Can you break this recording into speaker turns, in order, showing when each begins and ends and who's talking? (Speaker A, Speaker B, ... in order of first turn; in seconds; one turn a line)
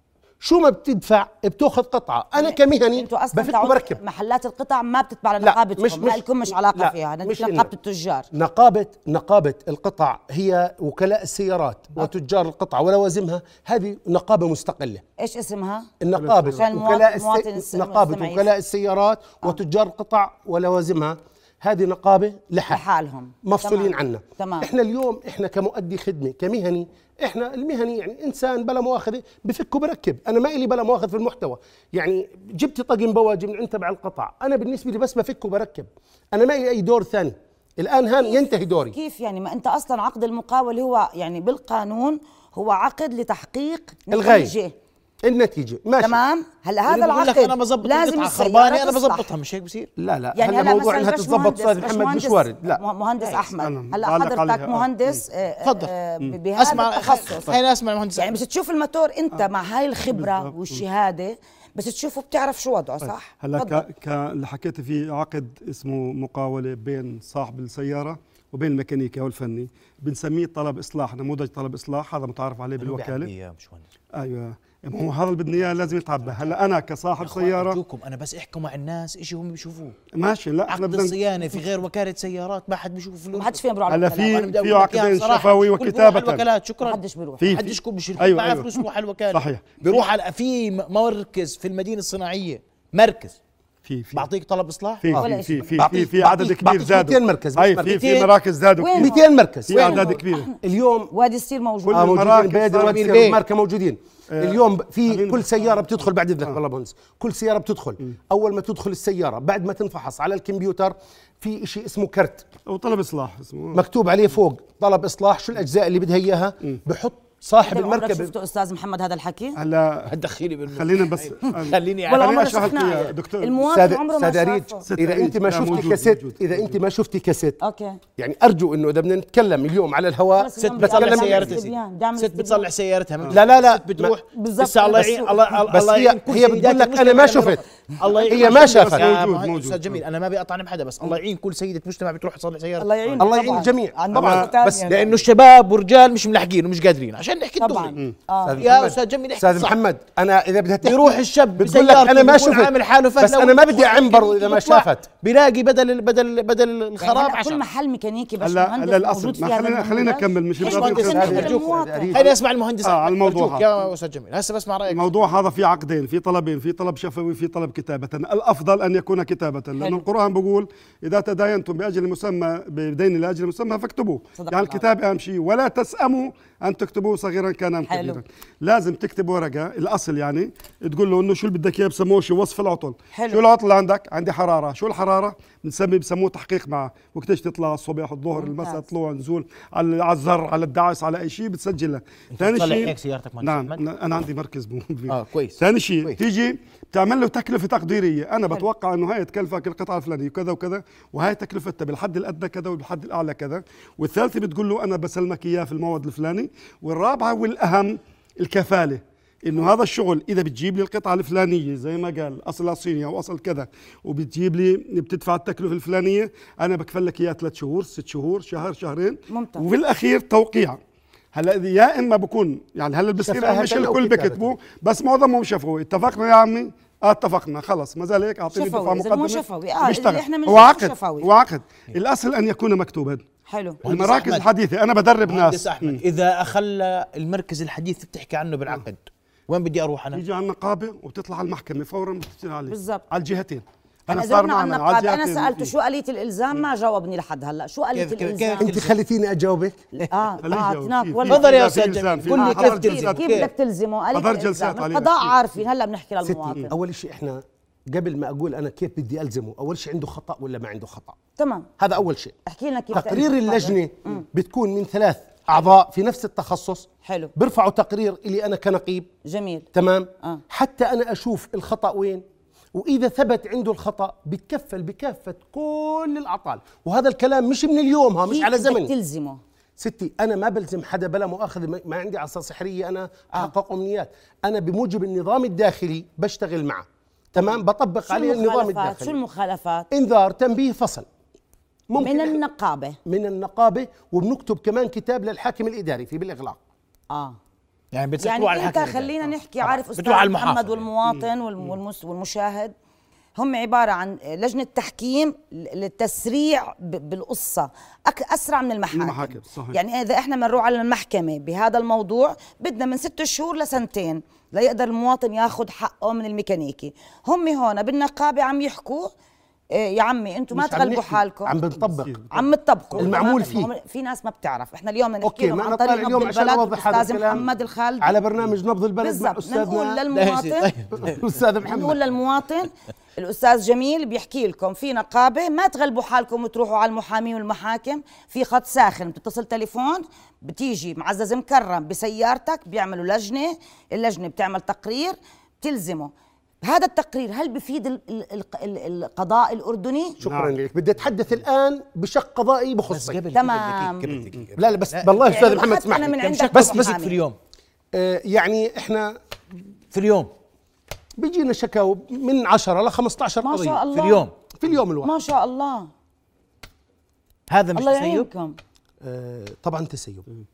Speaker A: 0.4-4.0
Speaker B: 2.4-8.3
Speaker A: 5.4-7.7
Speaker A: 8.3-15.0
Speaker B: 15.2-15.9
Speaker A: 16.0-22.8
Speaker C: 16.2-16.6
Speaker B: 16.5-18.5
Speaker B: 22.7-24.7
Speaker A: 23.4-39.0
Speaker B: 38.2-44.7
Speaker A: 44.1-44.5
Speaker A: 45.2-46.2
Speaker B: 46.0-49.3
Speaker D: 46.9-49.9
Speaker A: 50.0-52.8
Speaker B: 50.4-57.5
Speaker C: 53.6-55.2
Speaker D: 55.6-55.9
Speaker D: 56.5-58.4
Speaker B: 58.2-63.8
Speaker C: 60.1-60.9
Speaker C: 63.0-73.3
Speaker D: 72.8-73.9
Speaker C: 74.2-77.8
Speaker D: 75.6-76.6
Speaker D: 77.2-80.0
Speaker C: 80.1-81.6
Speaker D: 80.7-83.6
Speaker B: 83.3-84.5
Speaker C: 83.9-86.5
Speaker D: 84.2-93.4
Speaker B: 86.8-87.6
Speaker C: 87.4-90.0
Speaker C: 93.8-94.3
Speaker D: 94.1-95.2
Speaker C: 95.0-99.2
Speaker B: 95.2-95.8
Speaker A: 95.8-97.9
Speaker D: 97.8-98.3
Speaker B: 98.8-99.2
Speaker A: 99.0-101.1
Speaker C: 99.7-100.5
Speaker B: 99.7-100.5
Speaker D: 99.8-100.2
Speaker B: 101.1-102.2
Speaker C: 101.9-103.3
Speaker A: 101.9-112.5
Speaker D: 102.8-103.4
Speaker C: 104.3-105.6
Speaker C: 112.7-113.8
Speaker A: 113.8-118.3
Speaker B: 117.7-119.6
Speaker C: 119.6-120.1
Speaker D: 120.1-122.4
Speaker C: 120.7-123.6
Speaker B: 122.1-124.8
Speaker A: 123.7-127.6
Speaker C: 124.9-126.8
Speaker B: 127.6-128.0
Speaker A: 128.2-131.6
Speaker B: 130.4-132.7
Speaker D: 130.6-142.9
Speaker A: 133.3-134.1
Speaker B: 134.3-135.5
Speaker A: 135.7-137.6
Speaker A: 138.3-139.1
Speaker C: 138.3-140.0
Speaker B: 142.8-145.0
Speaker A: 143.2-145.1
Speaker C: 144.1-144.5
Speaker D: 144.8-148.0
Speaker B: 147.6-148.6
Speaker A: 148.4-155.1
Speaker D: 148.6-149.7
Speaker D: 150.8-157.6
Speaker B: 157.0-162.3
Speaker C: 158.4-161.5
Speaker D: 160.6-165.1
Speaker A: 160.7-162.3
Speaker C: 162.8-163.7
Speaker C: 164.9-220.8
Speaker B: 169.8-170.0
Speaker B: 174.4-174.8
Speaker B: 177.9-178.2
Speaker B: 183.1-183.4
Speaker B: 188.4-188.8
Speaker D: 192.4-193.8
Speaker D: 195.1-196.2
Speaker B: 219.3-219.7
Speaker C: 221.3-233.2
Speaker A: 223.2-224.5
Speaker B: 228.5-231.3
Speaker B: 233.5-233.8
Speaker D: 233.8-234.5
Speaker C: 233.8-236.0
Speaker D: 235.3-240.2
Speaker C: 240.1-245.7
Speaker B: 242.7-243.0
Speaker B: 244.1-248.7
Speaker D: 247.9-248.9
Speaker A: 248.6-249.8
Speaker B: 250.0-251.5
Speaker C: 250.4-253.3
Speaker D: 251.3-253.5
Speaker B: 252.2-256.7
Speaker C: 254.1-255.4
Speaker A: 256.3-261.2
Speaker B: 261.4-261.7
Speaker A: 261.8-262.4
Speaker B: 262.5-264.2
Speaker A: 262.9-269.1
Speaker B: 267.0-267.3
Speaker B: 269.2-269.7
Speaker A: 269.7-272.2
Speaker A: 272.8-278.9
Speaker B: 278.3-279.4
Speaker A: 279.8-289.2
Speaker B: 287.4-289.9
Speaker A: 289.9-291.1
Speaker A: 291.9-292.4
Speaker B: 292.0-293.0
Speaker A: 293.1-296.6
Speaker B: 297.1-297.4
Speaker D: 297.9-300.9
Speaker B: 298.2-302.7
Speaker C: 301.1-301.8
Speaker B: 303.4-319.1
Speaker C: 308.9-309.8
Speaker B: 319.8-321.5
Speaker A: 320.5-322.2
Speaker C: 321.8-323.5
Speaker B: 322.3-328.2
Speaker A: 323.0-323.7
Speaker A: 325.2-327.5
Speaker A: 328.0-330.0
Speaker B: 329.0-330.7
Speaker D: 330.1-331.2
Speaker A: 331.0-332.0
Speaker B: 331.6-346.1
Speaker B: 346.6-350.2
Speaker A: 350.2-353.2
Speaker C: 350.2-350.6
Speaker D: 352.9-357.4
Speaker B: 353.3-354.1
Speaker C: 354.1-354.5
Speaker A: 354.6-356.9
Speaker B: 355.2-357.2
Speaker A: 357.9-359.2
Speaker D: 359.9-360.3
Speaker A: 361.2-363.8
Speaker B: 363.4-364.2
Speaker D: 363.9-364.3
Speaker A: 364.5-365.1
Speaker B: 365.0-365.9
Speaker D: 367.5-368.3
Speaker B: 367.8-368.6
Speaker A: 369.0-370.3